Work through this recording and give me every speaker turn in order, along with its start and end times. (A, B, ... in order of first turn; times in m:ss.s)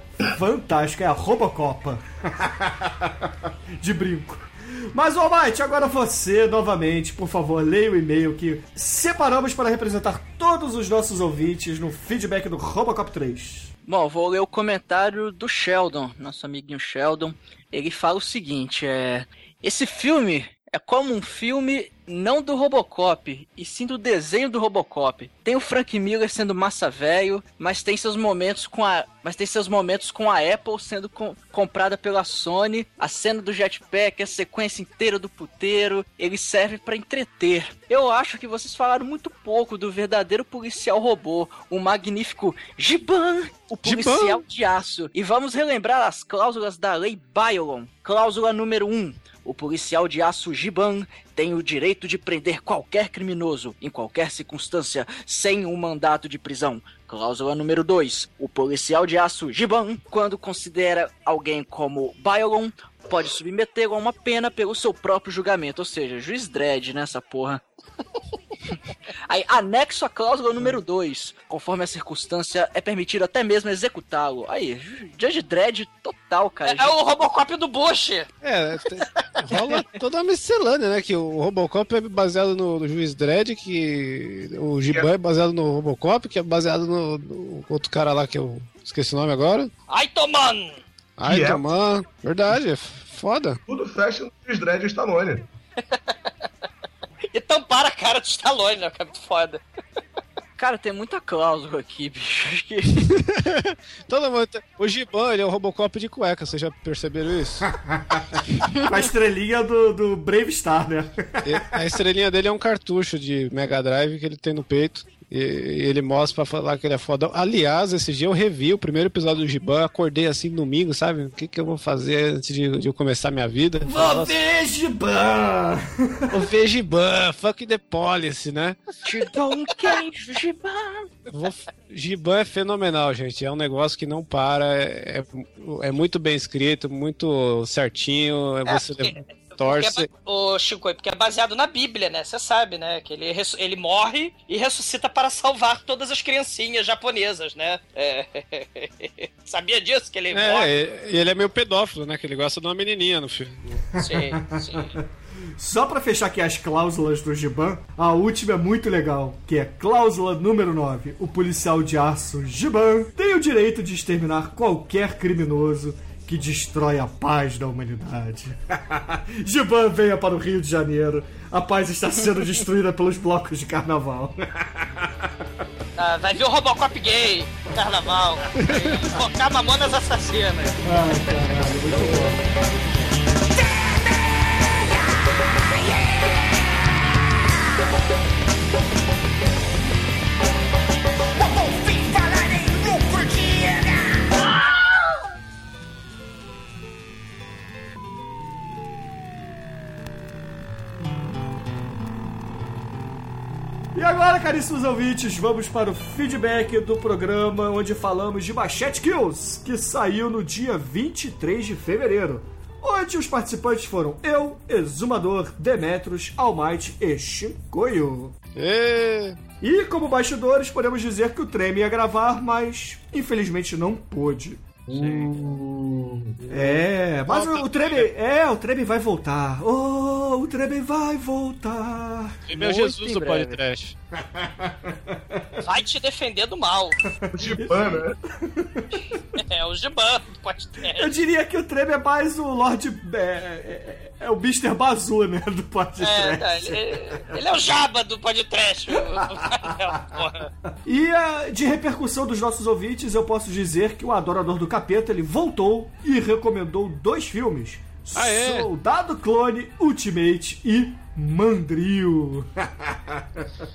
0:00.3-0:13.7 A
0:13.9-1:07.6 B
0:43.8-0:44.4 C
1:09.3-1:16.9 B
1:16.7-1:18.3 D
1:18.4-1:29.7 C
1:19.2-1:19.4 D
1:29.9-1:30.8 D
1:31.2-1:33.6 C
1:31.2-1:31.8 E
1:33.7-1:35.5 E
1:37.3-1:39.6 D
1:40.6-1:43.1 B
1:43.2-1:47.7 C
1:48.0-1:48.2 A
1:48.9-1:51.7 A
1:51.4-2:04.4 C
2:03.8-2:06.4 A
2:06.3-2:08.8 C
2:09.0-2:11.1 B
2:11.3-2:20.1 C
2:18.7-2:30.7 D
2:30.3-2:33.9 C
2:34.0-2:35.0 D
2:34.1-2:35.0 A
2:35.6-2:55.3 A
2:56.0-3:00.8 D
3:00.8-3:02.4 A
3:23.9-3:38.4 A
3:38.6-3:39.4 C
3:39.6-3:44.8 A
3:44.9-3:46.3 E
3:45.0-3:45.3 C
3:46.5-3:48.1 C
3:46.5-3:52.4 A
3:52.5-3:54.0 C
3:52.5-3:53.6 B
3:54.6-3:55.5 A
3:55.6-3:57.0 D
3:57.2-3:59.2 A
3:57.3-3:58.2 E
3:59.4-4:01.1 D
4:00.9-4:07.2 A
4:06.0-4:10.5 D
4:10.8-4:23.2 A
4:18.2-4:18.7 C